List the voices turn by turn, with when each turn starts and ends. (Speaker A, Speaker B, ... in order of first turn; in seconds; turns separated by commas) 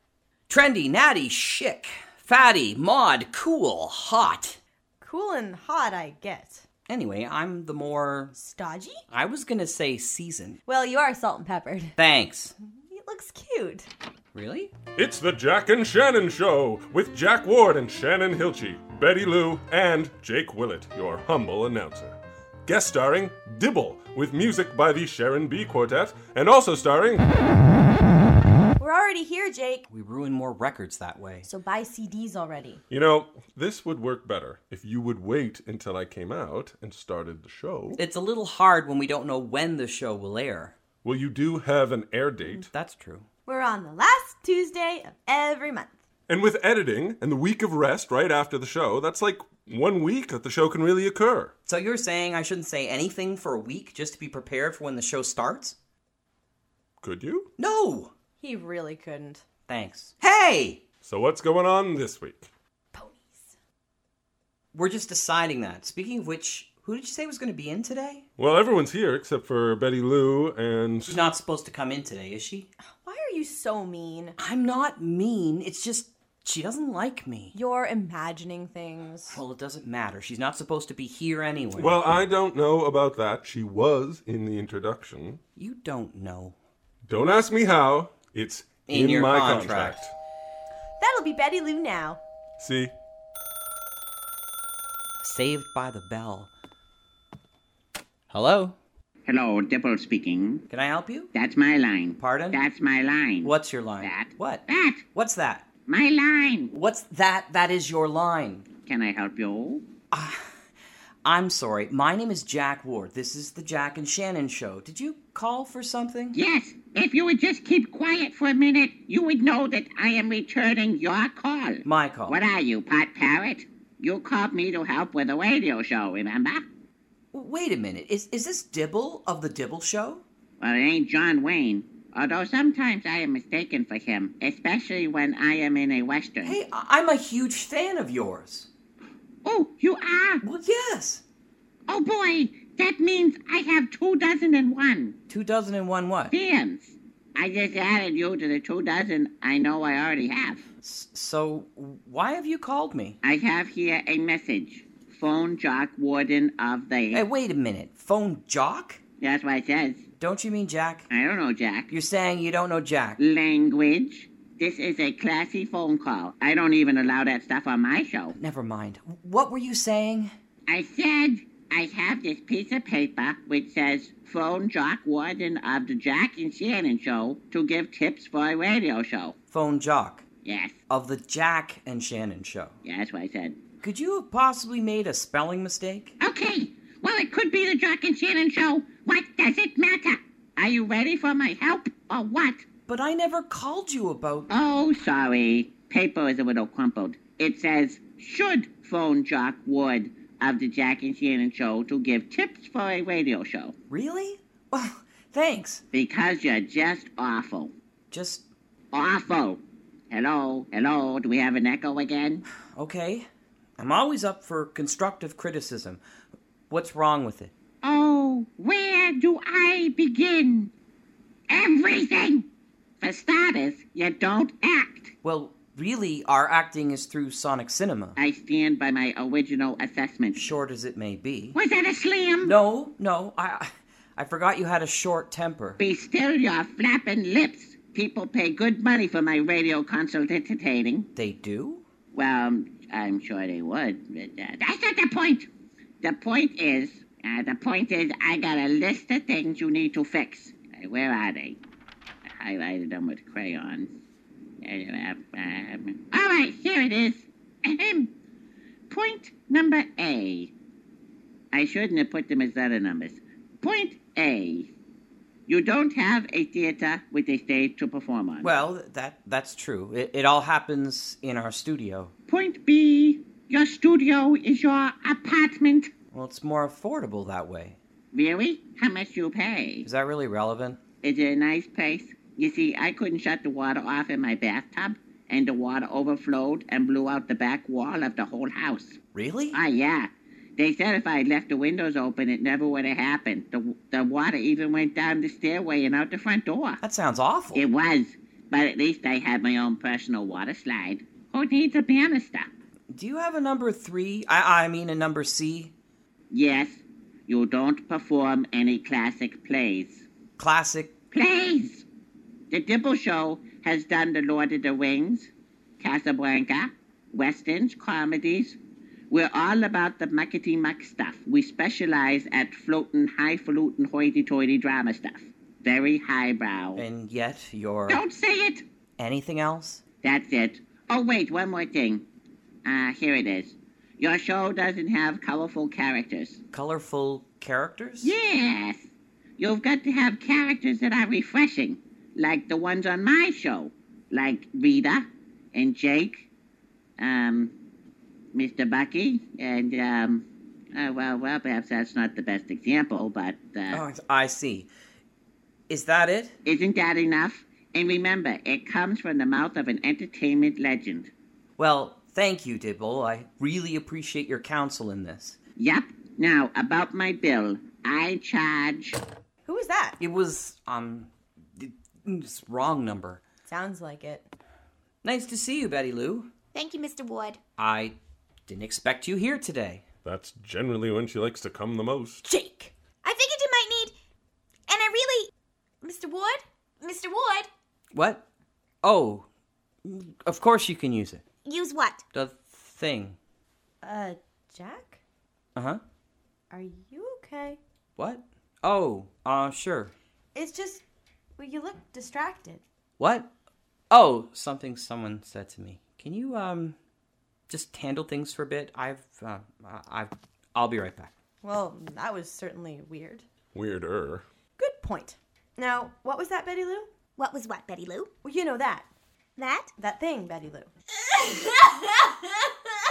Speaker A: 0.5-4.6, Speaker B: 5.0-6.6, Speaker A: 6.9-8.3, Speaker B: 8.3-9.0, Speaker A: 9.1-10.6, Speaker B: 10.7-11.9, Speaker A: 12.0-12.5, Speaker B: 12.7-13.9, Speaker A: 14.3-14.7, Speaker C: 15.0-27.3, Speaker B: 28.8-29.9, Speaker A: 29.9-31.5, Speaker B: 31.4-32.8, Speaker C: 32.9-38.0, Speaker A: 38.0-40.7, Speaker C: 41.0-42.7, Speaker A: 42.6-43.2, Speaker B: 43.5-46.0, Speaker C: 46.3-51.5, Speaker A: 51.7-55.8, Speaker C: 57.0-57.5, Speaker A: 57.6-58.1, Speaker B: 58.4-59.4, Speaker A: 59.7-60.8, Speaker C: 61.0-62.5, Speaker B: 62.9-63.5, Speaker A: 64.7-68.2, Speaker C: 68.4-71.2, Speaker A: 71.1-72.7, Speaker B: 72.9-74.4, Speaker A: 74.4-77.5, Speaker B: 77.5-79.4, Speaker A: 79.3-82.2, Speaker C: 81.8-85.4, Speaker A: 85.5-86.5, Speaker C: 87.1-90.1, Speaker A: 88.9-90.0, Speaker B: 91.0-92.2, Speaker C: 92.6-92.9, Speaker A: 95.2-96.5, Speaker A: 98.3-98.8, Speaker D: 99.2-100.6, Speaker A: 100.7-101.3, Speaker D: 101.3-105.0, Speaker A: 102.2-102.6, Speaker A: 103.4-105.7, Speaker D: 105.9-106.7, Speaker A: 106.7-108.7, Speaker D: 108.8-109.9, Speaker A: 110.1-110.4, Speaker A: 111.2-116.4, Speaker D: 116.3-126.6, Speaker A: 121.8-122.4, Speaker A: 127.3-130.2, Speaker D: 130.6-136.6, Speaker A: 136.4-138.7, Speaker D: 139.4-140.4, Speaker A: 140.4-141.2, Speaker D: 141.9-145.2, Speaker A: 145.3-146.3, Speaker D: 146.3-150.6, Speaker A: 150.8-153.2, Speaker D: 153.2-157.2, Speaker A: 157.1-159.0, Speaker D: 159.2-160.0, Speaker A: 160.2-161.1, Speaker D: 161.1-161.9, Speaker A: 161.9-163.2, Speaker D: 163.2-168.3, Speaker A: 168.3-170.3, Speaker D: 170.7-179.3, Speaker A: 179.5-180.2, Speaker D: 180.4-180.8, Speaker A: 180.9-182.8, Speaker D: 182.8-183.6, Speaker A: 183.8-186.1, Speaker D: 186.2-192.7, Speaker A: 192.9-194.5, Speaker D: 194.5-203.7, Speaker A: 203.9-205.8, Speaker D: 205.9-207.7, Speaker A: 208.1-208.4, Speaker D: 208.9-212.4, Speaker A: 212.7-213.3, Speaker A: 213.8-216.0, Speaker A: 216.7-217.5, Speaker D: 217.8-220.7, Speaker D: 221.5-222.5, Speaker D: 223.0-225.1, Speaker A: 225.2-228.2, Speaker D: 228.2-230.4, Speaker A: 230.3-231.6, Speaker D: 231.5-232.5, Speaker A: 232.4-235.8, Speaker D: 235.8-241.1, Speaker A: 241.2-241.8, Speaker D: 242.1-245.5, Speaker D: 246.0-251.6, Speaker D: 252.4-253.9, Speaker D: 254.6-258.1, Speaker D: 258.9-260.5, Speaker D: 261.5-264.7, Speaker D: 265.5-268.5, Speaker A: 268.4-272.1, Speaker D: 272.3-275.9, Speaker A: 276.1-277.8, Speaker D: 278.1-279.9, Speaker A: 279.9-280.8, Speaker D: 281.0-289.0, Speaker A: 289.1-289.6, Speaker D: 289.5-296.8, Speaker A: 296.8-297.6, Speaker D: 297.5-302.5, Speaker A: 302.9-305.7, Speaker D: 306.3-310.1, Speaker A: 310.4-310.9, Speaker D: 311.1-311.9, Speaker D: 312.5-318.6, Speaker D: 319.1-326.8, Speaker A: 326.8-328.0, Speaker D: 327.9-328.6, Speaker A: 329.0-329.8, Speaker D: 330.0-332.0, Speaker D: 332.6-336.4, Speaker A: 336.5-338.1, Speaker D: 338.0-346.3, Speaker D: 347.0-347.5, Speaker D: 348.3-353.8, Speaker A: 353.7-354.7, Speaker A: 355.7-356.4, Speaker D: 356.4-361.1, Speaker A: 361.6-365.4, Speaker D: 365.6-369.0, Speaker B: 369.5-370.0, Speaker A: 370.0-373.2, Speaker B: 373.5-374.3, Speaker A: 375.0-376.3, Speaker E: 376.5-377.4, Speaker A: 377.6-378.0, Speaker A: 378.5-379.9, Speaker C: 380.0-382.2, Speaker B: 382.2-382.7, Speaker E: 383.0-383.9, Speaker E: 384.7-385.3, Speaker E: 385.8-387.5, Speaker A: 387.9-388.2, Speaker A: 388.8-389.2, Speaker A: 389.8-391.2, Speaker E: 391.4-392.0, Speaker A: 392.1-393.1, Speaker B: 393.8-395.0, Speaker A: 395.6-395.8, Speaker B: 396.5-397.6, Speaker A: 398.0-399.9, Speaker B: 400.4-400.8, Speaker B: 401.4-402.6, Speaker A: 403.0-403.3, Speaker A: 403.9-406.8, Speaker A: 407.5-411.1, Speaker B: 411.4-413.2, Speaker C: 413.5-414.2, Speaker B: 414.6-416.9, Speaker E: 417.2-418.1, Speaker B: 418.2-418.9, Speaker E: 419.4-419.7, Speaker B: 419.8-420.7, Speaker E: 421.0-422.5